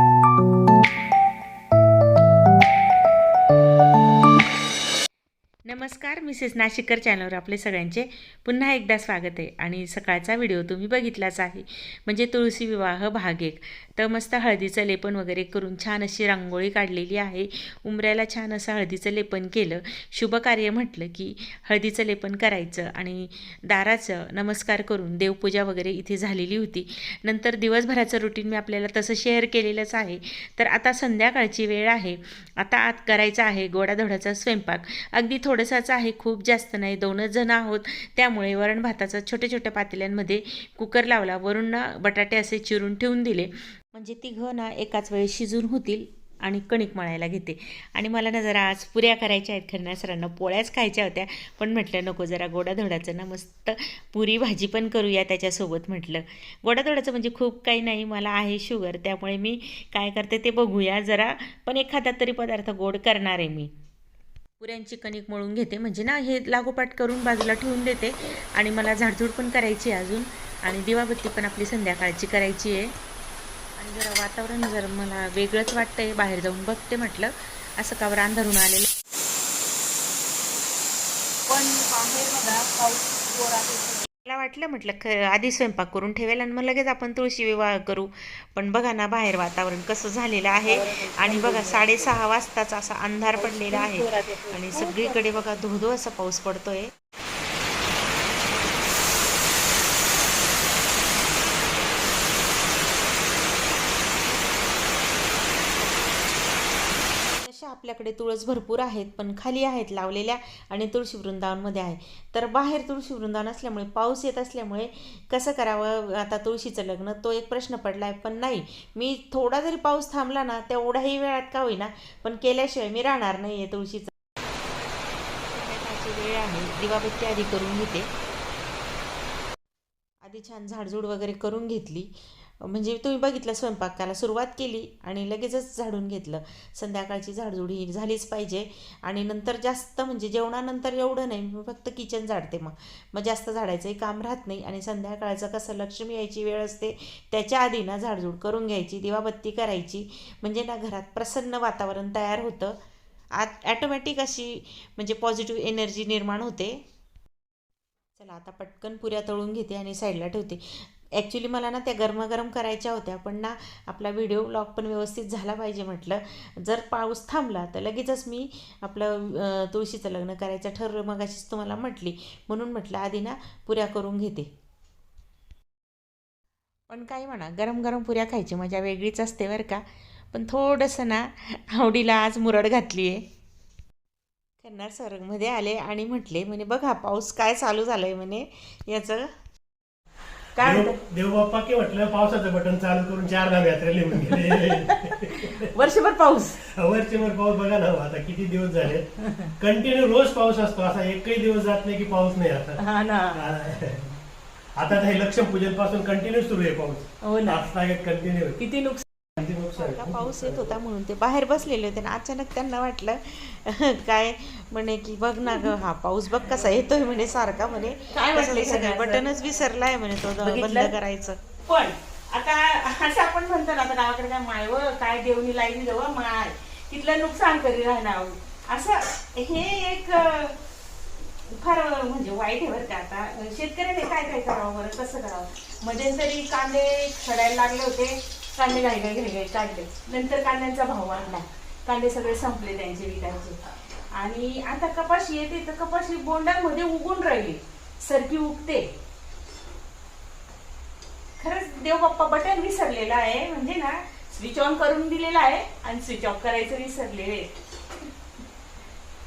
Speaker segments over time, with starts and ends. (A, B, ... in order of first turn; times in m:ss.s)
0:05.7-1:03.7 A
1:04.6-1:12.9 A
1:13.8-1:18.9 A
1:21.5-1:24.0 B
1:24.2-1:36.9 A
1:30.6-1:32.0 B
1:33.4-1:35.2 B
1:47.3-2:04.1 A
2:05.5-2:08.1 A
2:10.2-2:32.8 A
2:33.4-2:36.8 A
2:38.2-2:54.5 A
2:56.9-3:03.2 A
3:04.6-3:09.3 A
3:10.6-3:10.9 B
3:10.6-3:15.7 C
3:15.1-3:16.6 B
3:16.8-3:19.1 C
3:19.6-3:22.8 C
3:22.8-3:23.4 B
3:23.3-3:24.1 C
3:24.8-3:28.7 C
3:27.2-3:27.6 B
3:28.6-3:29.0 B
3:29.4-3:30.6 C
3:29.7-3:41.4 A
3:38.1-3:39.3 B
3:40.4-3:40.9 B
3:41.6-3:50.6 B
3:51.5-4:03.6 B
4:04.1-4:08.9 B
4:11.4-4:17.5 B